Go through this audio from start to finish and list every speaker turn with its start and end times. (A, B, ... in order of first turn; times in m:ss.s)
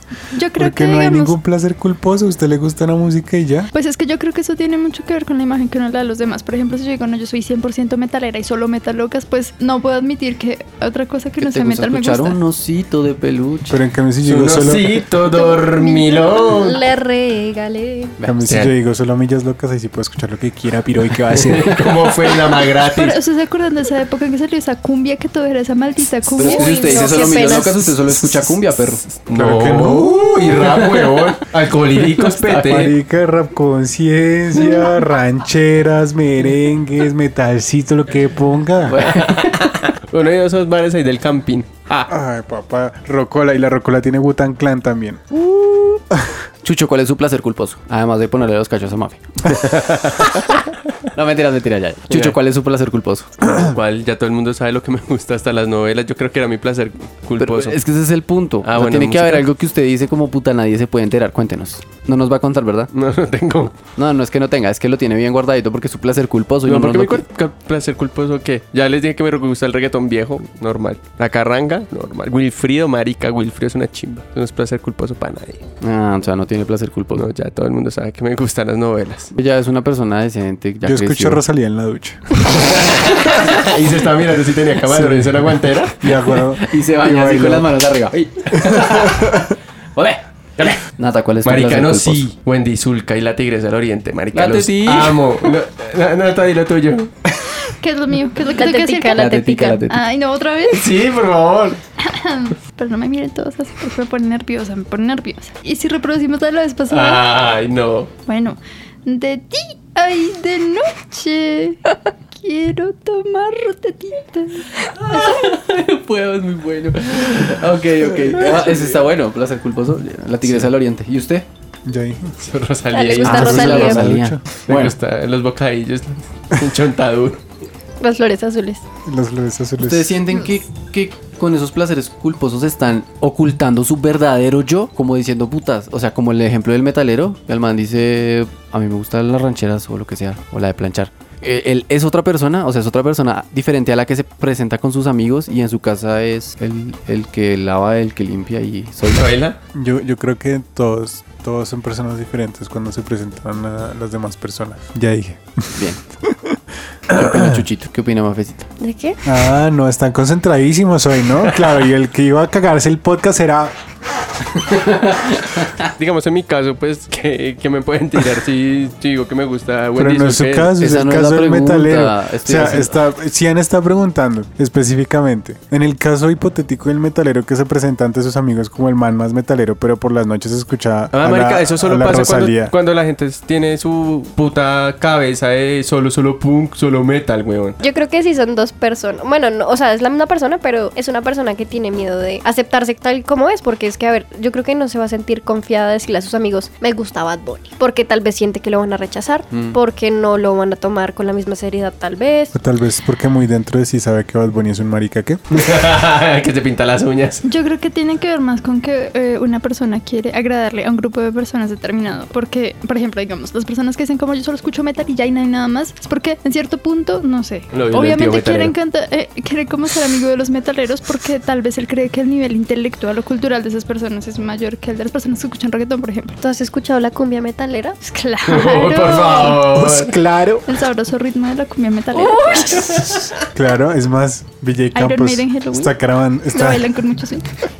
0:00.3-0:01.3 A
0:00.5-0:03.7 B
0:03.7-0:12.4 A
0:11.4-0:13.8 C
0:13.7-0:15.1 B
0:14.2-0:16.8 D
0:15.2-0:18.1 E
0:18.2-0:21.9 B
0:18.4-0:18.7 D
0:21.3-0:23.2 D
0:22.7-0:27.6 A
0:26.3-0:29.0 C
0:26.4-0:28.0 E
0:29.2-0:32.9 D
0:29.3-0:31.4 B
0:32.1-0:39.0 B
0:38.9-0:39.7 C
0:39.0-0:42.1 D
0:42.1-0:45.4 B
0:46.6-0:49.5 C
0:49.5-0:50.6 D
0:51.1-0:53.4 C
0:52.1-0:52.4 D
0:53.5-0:57.8 D
0:57.4-1:02.9 C
0:58.6-0:59.4 D
1:02.9-1:03.7 D
1:04.0-1:07.2 C
1:06.6-1:15.6 D
1:15.8-1:17.2 C
1:17.1-1:19.3 D
1:19.3-1:21.4 C
1:20.8-1:22.3 B
1:22.4-1:26.2 D
1:24.9-1:25.3 C
1:26.0-1:27.7 B
1:26.6-1:29.4 C
1:30.0-1:32.2 C
1:31.4-1:37.1 D
1:34.3-1:35.5 C
1:37.7-1:39.4 A
1:38.5-1:39.8 E
1:39.1-1:40.0 C
1:39.9-1:40.9 A
1:40.7-1:41.8 D
1:42.0-1:47.2 A
1:46.9-1:48.1 D
1:48.3-1:55.4 A
1:55.0-2:01.4 C
1:57.0-1:58.7 D
2:01.8-2:02.4 B
2:02.4-2:07.4 D
2:02.9-2:04.0 E
2:03.2-2:04.9 C
2:03.2-2:04.4 B
2:08.0-2:08.8 E
2:09.0-2:10.2 B
2:09.8-2:29.4 C
2:29.1-2:29.6 D
2:29.7-2:36.6 B
2:37.1-2:37.6 B
2:37.1-2:38.7 C
2:38.8-2:39.2 E
2:39.2-2:43.7 B
2:44.7-2:45.8 C
2:45.8-2:50.7 D
2:50.0-3:02.7 B
2:50.8-2:53.0 C
3:01.1-3:07.8 D
3:07.8-3:22.5 E
3:19.5-3:19.8 C
3:22.5-3:25.7 B
3:25.5-3:27.4 D
3:27.4-3:46.3 A
3:37.7-3:38.7 D
3:46.4-3:48.0 E
3:48.0-3:49.7 A
3:48.4-3:50.2 D
3:49.6-3:50.7 B
3:50.7-3:53.1 A
3:52.1-3:53.1 E
3:53.5-3:56.9 B
3:54.9-3:55.9 A
3:56.5-3:57.5 A